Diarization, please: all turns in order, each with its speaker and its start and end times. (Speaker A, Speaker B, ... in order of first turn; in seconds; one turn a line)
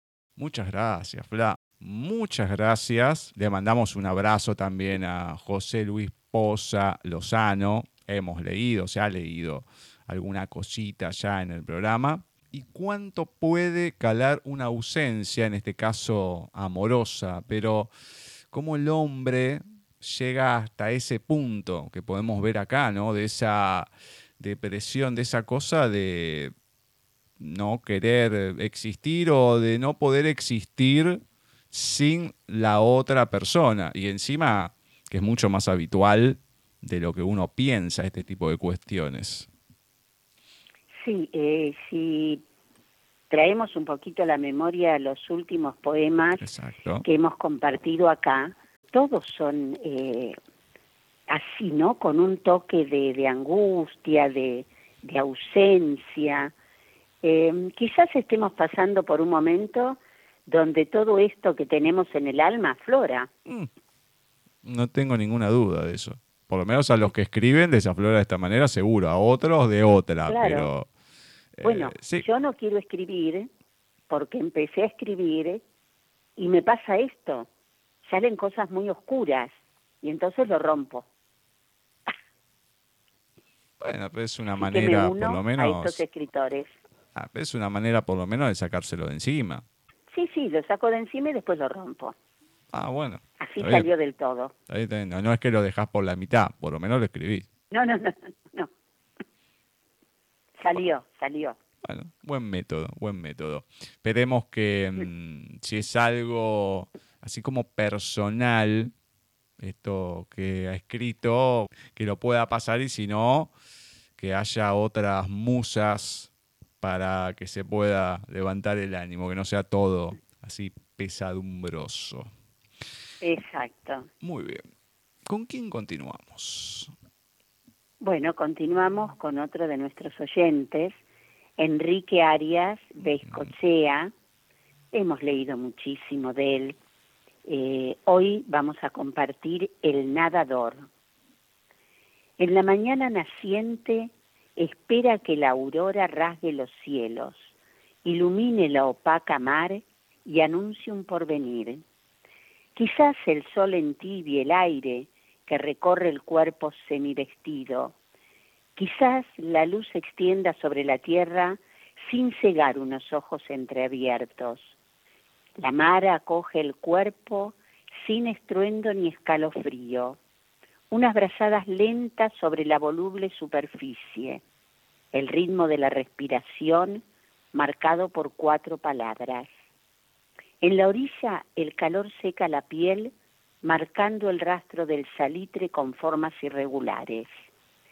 Speaker A: 0.4-17.9
Speaker A: 18.5-26.5
Speaker A: 27.4-39.5
Speaker B: 41.0-42.4
Speaker B: 43.3-46.4
Speaker A: 46.4-47.0
Speaker B: 47.0-50.4
Speaker B: 51.3-56.5
Speaker B: 57.2-63.3
Speaker A: 64.6-70.9
Speaker B: 70.3-70.7
Speaker A: 71.6-72.3
Speaker B: 71.6-73.5
Speaker B: 74.1-75.6
Speaker B: 76.4-77.5
Speaker B: 78.0-81.1
Speaker A: 83.8-86.0
Speaker B: 84.6-86.7
Speaker A: 87.2-89.7
Speaker B: 90.1-92.2
Speaker A: 92.7-93.9
Speaker B: 93.4-94.5
Speaker A: 94.7-97.5
Speaker B: 97.7-98.7
Speaker B: 100.6-101.6
Speaker A: 101.8-108.9
Speaker A: 109.6-113.5
Speaker A: 114.2-116.3
Speaker A: 116.8-122.3
Speaker B: 123.2-124.1
Speaker A: 124.2-124.6
Speaker A: 125.3-126.9
Speaker B: 128.0-131.0
Speaker B: 131.6-134.1
Speaker A: 133.3-133.5
Speaker B: 134.9-136.8
Speaker B: 137.5-140.9
Speaker B: 142.4-147.5
Speaker B: 148.0-151.8
Speaker B: 152.8-157.9
Speaker B: 158.8-164.7
Speaker B: 165.6-170.2
Speaker B: 170.9-174.4
Speaker B: 175.1-177.0
Speaker B: 177.5-179.5
Speaker B: 180.6-183.1
Speaker B: 183.6-187.3